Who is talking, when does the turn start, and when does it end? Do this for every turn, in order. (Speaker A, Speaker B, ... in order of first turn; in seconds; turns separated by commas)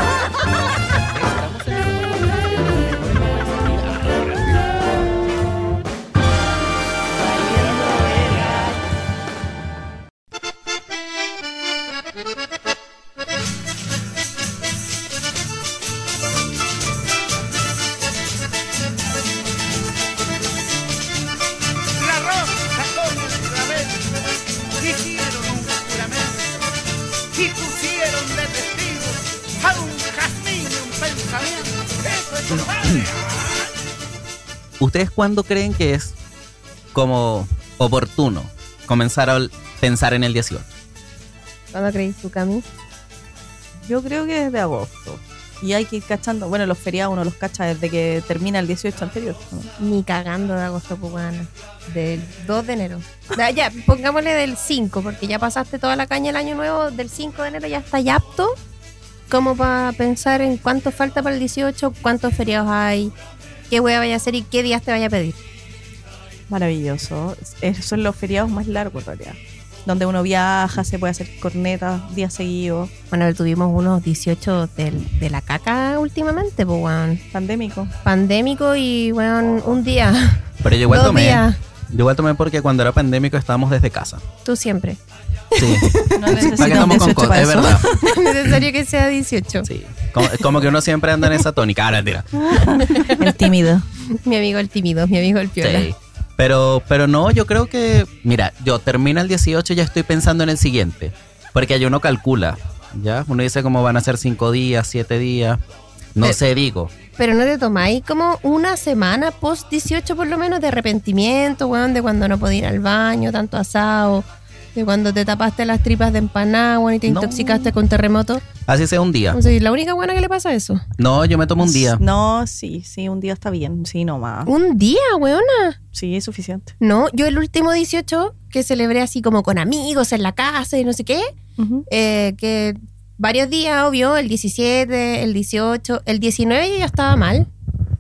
Speaker A: 0.9-4.6, Speaker B: 7.8-8.1, Speaker C: 22.0-24.1, Speaker C: 24.8-26.5, Speaker C: 27.3-33.0, Speaker A: 34.8-36.2, Speaker A: 36.9-40.7, Speaker D: 41.7-42.6, Speaker B: 43.9-49.7, Speaker D: 49.8-58.5, Speaker D: 59.3-63.1, Speaker D: 63.7-65.4, Speaker B: 66.5-72.9, Speaker D: 73.1-77.2, Speaker B: 77.3-77.9, Speaker D: 78.0-81.6, Speaker A: 80.6-84.2, Speaker D: 84.5-85.0, Speaker A: 85.6-87.9, Speaker D: 85.6-87.0, Speaker B: 86.1-88.2, Speaker D: 87.9-89.7, Speaker A: 89.7-92.5, Speaker B: 92.5-93.8, Speaker D: 92.8-93.3, Speaker D: 94.1-95.9, Speaker A: 95.6-105.6, Speaker A: 106.2-106.9, Speaker D: 107.2-118.5, Speaker A: 117.1-117.7, Speaker A: 118.7-119.4, Speaker D: 119.3-120.8, Speaker A: 121.0-122.0, Speaker B: 121.6-124.5, Speaker D: 124.5-125.8, Speaker B: 125.9-126.7, Speaker D: 126.8-131.3, Speaker B: 131.6-131.8, Speaker D: 131.9-137.5